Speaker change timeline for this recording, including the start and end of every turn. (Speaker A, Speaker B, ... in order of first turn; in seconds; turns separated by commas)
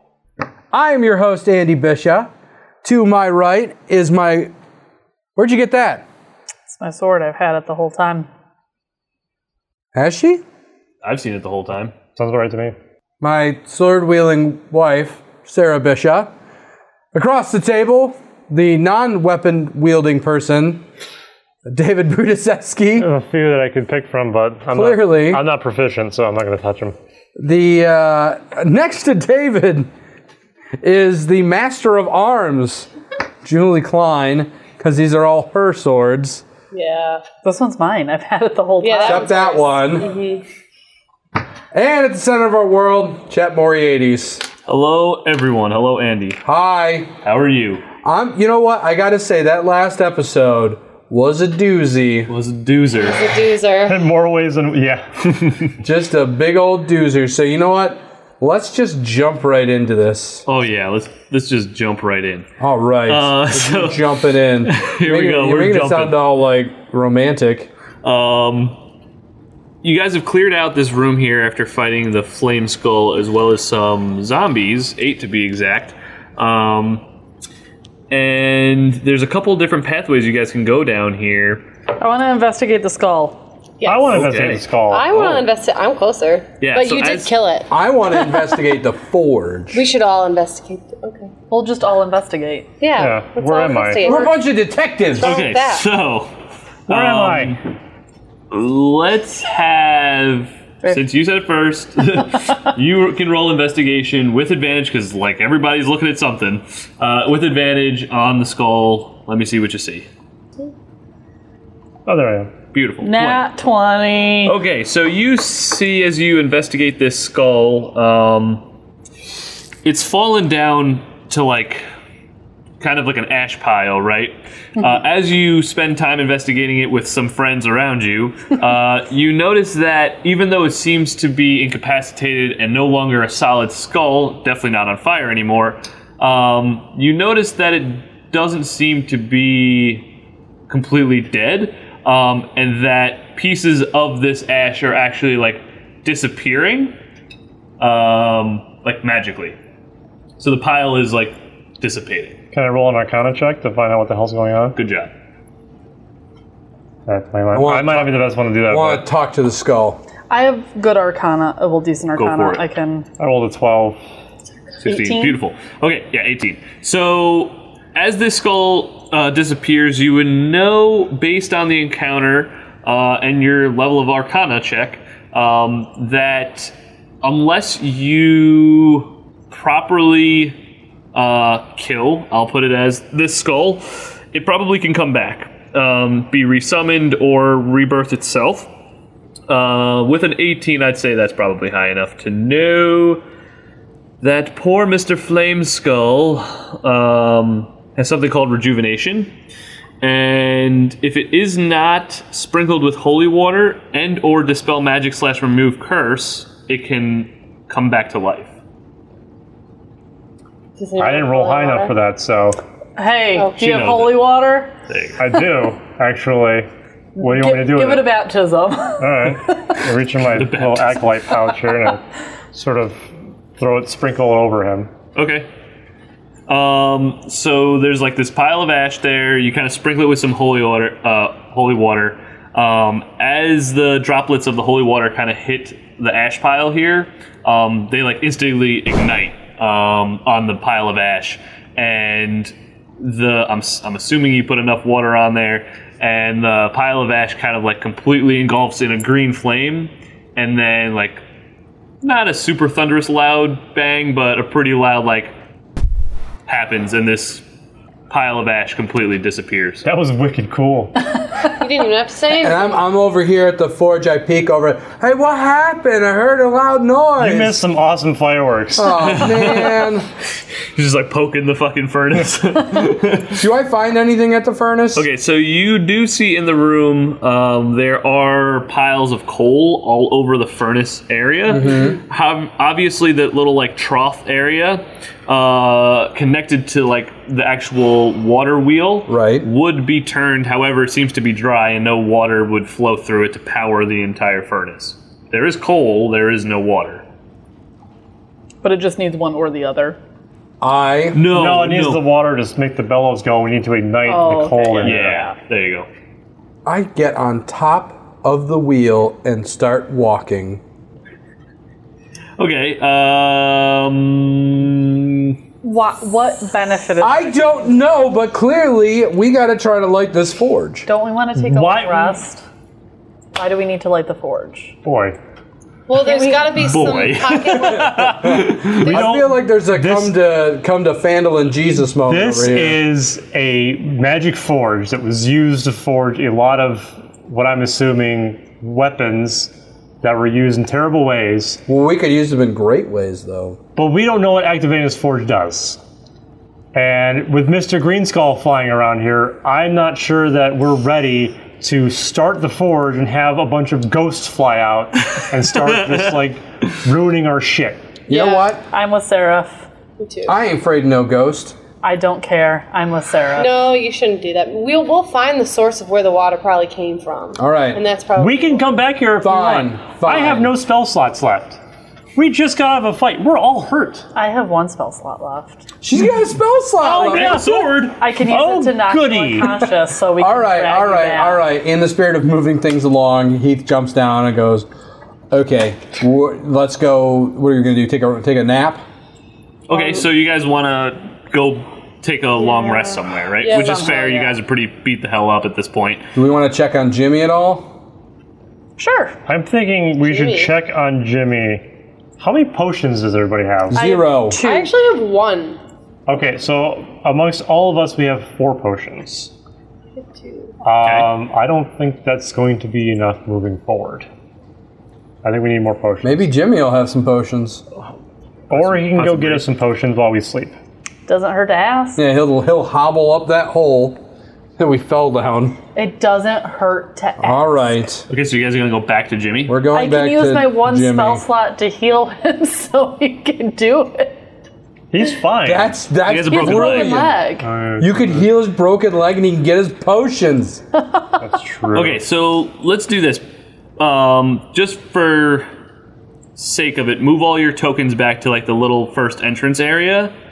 Speaker A: 0.7-2.3, Speaker A: 2.8-4.5, Speaker A: 5.4-6.0, Speaker B: 6.7-8.3, Speaker A: 9.9-10.4, Speaker C: 11.0-12.0, Speaker D: 12.2-12.8, Speaker A: 13.2-16.3, Speaker A: 17.1-20.9, Speaker A: 21.6-23.1, Speaker D: 23.0-26.9, Speaker A: 24.7-25.4, Speaker A: 27.4-29.9, Speaker A: 30.8-32.9, Speaker A: 33.4-36.5, Speaker E: 36.7-37.2, Speaker B: 37.4-39.4, Speaker E: 38.8-40.4, Speaker A: 39.0-40.1, Speaker A: 41.7-44.5, Speaker C: 44.7-46.4, Speaker A: 46.5-47.1, Speaker C: 47.2-47.8, Speaker A: 48.0-52.3, Speaker C: 52.3-53.3, Speaker E: 53.0-54.0, Speaker D: 53.9-55.6, Speaker A: 55.8-60.5, Speaker C: 60.5-62.5, Speaker A: 62.6-67.7, Speaker C: 63.1-64.1, Speaker C: 64.6-66.2, Speaker C: 68.0-68.8, Speaker C: 69.8-77.0, Speaker C: 78.1-81.6, Speaker B: 82.0-83.4, Speaker E: 83.8-84.3, Speaker D: 83.8-85.2, Speaker C: 84.1-84.6, Speaker E: 84.8-87.7, Speaker C: 85.2-85.4, Speaker C: 86.6-87.3, Speaker A: 87.7-89.8, Speaker E: 89.7-91.3, Speaker B: 91.5-92.7, Speaker E: 92.8-94.4, Speaker D: 93.0-94.2, Speaker A: 94.0-95.4, Speaker E: 95.1-95.8, Speaker C: 95.2-96.3, Speaker D: 96.9-97.6, Speaker C: 96.9-97.6, Speaker C: 98.5-110.1, Speaker D: 112.1-112.5, Speaker C: 112.7-113.4, Speaker B: 113.0-114.6, Speaker C: 114.4-118.6, Speaker C: 119.8-121.8, Speaker C: 122.8-140.1, Speaker C: 140.7-146.9, Speaker C: 147.8-149.6, Speaker C: 150.4-152.4, Speaker D: 152.5-154.8, Speaker C: 154.8-155.1, Speaker D: 157.1-159.1, Speaker A: 157.5-160.0, Speaker B: 160.3-163.1, Speaker C: 162.2-162.6, Speaker D: 163.2-164.0, Speaker C: 164.8-180.6, Speaker B: 164.8-165.4, Speaker C: 181.1-188.7, Speaker C: 189.5-193.2, Speaker C: 194.2-199.3, Speaker C: 200.0-208.5, Speaker E: 210.8-212.0, Speaker D: 211.0-212.6, Speaker B: 213.0-214.7, Speaker C: 213.6-214.3, Speaker C: 214.9-215.2, Speaker D: 215.2-218.1, Speaker B: 217.2-219.4, Speaker D: 219.0-222.0, Speaker C: 220.3-221.0, Speaker D: 222.5-224.9, Speaker C: 225.2-225.5, Speaker C: 226.5-251.2, Speaker C: 252.0-255.3, Speaker C: 256.5-257.4, Speaker C: 258.1-259.9, Speaker D: 259.8-260.9, Speaker E: 261.5-262.6, Speaker A: 262.4-267.6, Speaker D: 267.2-269.2, Speaker A: 268.8-270.1, Speaker C: 269.0-270.0, Speaker C: 270.8-273.4, Speaker A: 273.3-275.1, Speaker C: 274.9-297.0, Speaker A: 281.5-282.0, Speaker A: 289.1-289.5, Speaker B: 298.6-300.0, Speaker A: 300.6-301.2, Speaker C: 301.1-302.1, Speaker D: 301.3-305.3, Speaker B: 304.1-305.2, Speaker C: 304.8-305.9, Speaker A: 306.6-310.6, Speaker C: 312.4-315.4, Speaker B: 315.6-317.7, Speaker A: 317.0-320.9, Speaker B: 320.9-322.4, Speaker D: 321.4-322.2, Speaker B: 323.4-324.8, Speaker D: 324.8-325.2, Speaker E: 325.9-329.1, Speaker B: 326.0-326.5, Speaker C: 326.5-328.9, Speaker A: 328.2-332.8, Speaker D: 328.8-330.1, Speaker D: 332.1-341.6, Speaker A: 341.7-343.6, Speaker D: 343.8-345.8, Speaker D: 346.7-357.8, Speaker C: 355.6-356.2, Speaker A: 358.1-358.6, Speaker B: 358.1-359.7, Speaker E: 360.0-360.4, Speaker A: 360.3-361.6, Speaker B: 361.8-363.6, Speaker E: 363.4-368.6, Speaker A: 367.4-367.8, Speaker D: 368.2-371.6, Speaker A: 369.2-370.5, Speaker D: 372.2-374.1, Speaker B: 374.1-375.7, Speaker A: 375.8-377.4, Speaker C: 376.8-378.0, Speaker B: 377.0-381.4, Speaker D: 377.1-377.6, Speaker D: 378.2-379.6, Speaker A: 380.2-384.7, Speaker A: 385.3-388.8, Speaker C: 389.7-396.1, Speaker B: 389.7-390.0, Speaker E: 392.4-394.3, Speaker B: 393.4-394.3, Speaker A: 396.1-397.7, Speaker B: 398.8-399.1, Speaker D: 399.3-401.6, Speaker E: 400.0-400.5, Speaker D: 402.2-403.8, Speaker A: 403.7-404.4, Speaker B: 403.7-404.7, Speaker E: 404.4-405.6, Speaker D: 406.1-409.3, Speaker E: 410.0-410.6, Speaker D: 410.6-414.1, Speaker C: 410.8-411.1, Speaker D: 415.2-416.3, Speaker A: 416.0-417.6, Speaker D: 418.5-420.6, Speaker C: 418.5-419.5, Speaker B: 421.1-422.0, Speaker A: 422.0-424.0, Speaker A: 424.6-425.6, Speaker B: 425.8-427.7, Speaker A: 427.2-428.1, Speaker C: 428.1-429.6, Speaker A: 429.5-431.2, Speaker B: 429.7-434.2, Speaker D: 434.9-435.8, Speaker A: 435.4-437.2, Speaker C: 436.1-436.9, Speaker B: 436.2-437.5, Speaker D: 437.4-438.3, Speaker A: 437.8-440.6, Speaker D: 441.2-442.0, Speaker C: 441.7-443.2, Speaker C: 443.8-445.5, Speaker C: 446.4-450.1